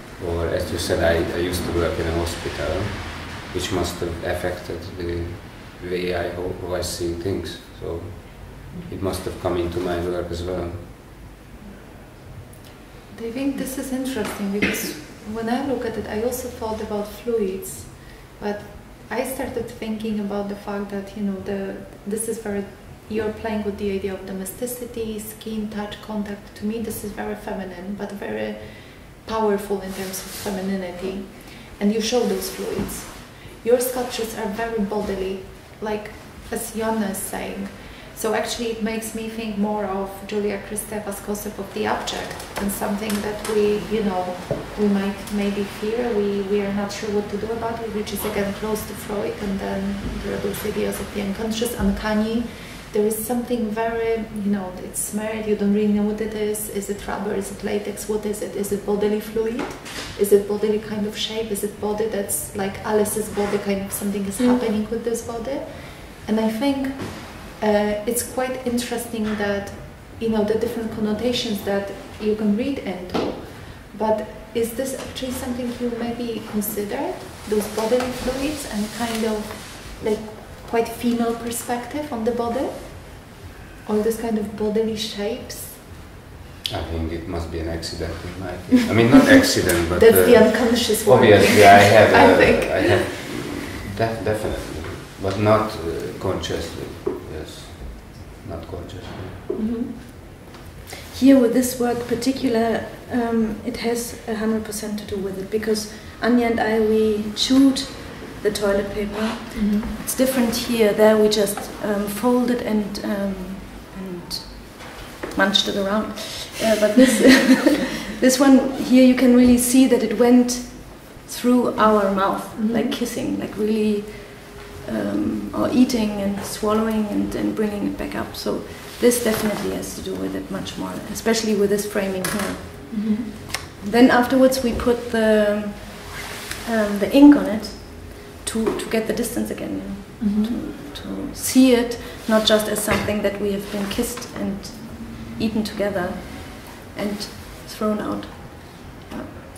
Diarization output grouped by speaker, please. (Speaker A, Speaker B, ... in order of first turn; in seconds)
Speaker A: 0.2-10.9, 86.7-99.4
Speaker B: 13.1-85.9, 89.9-93.0, 99.5-99.9, 109.5-109.9, 121.8-123.0, 132.9-133.3, 140.2-140.6
Speaker C: 101.1-149.3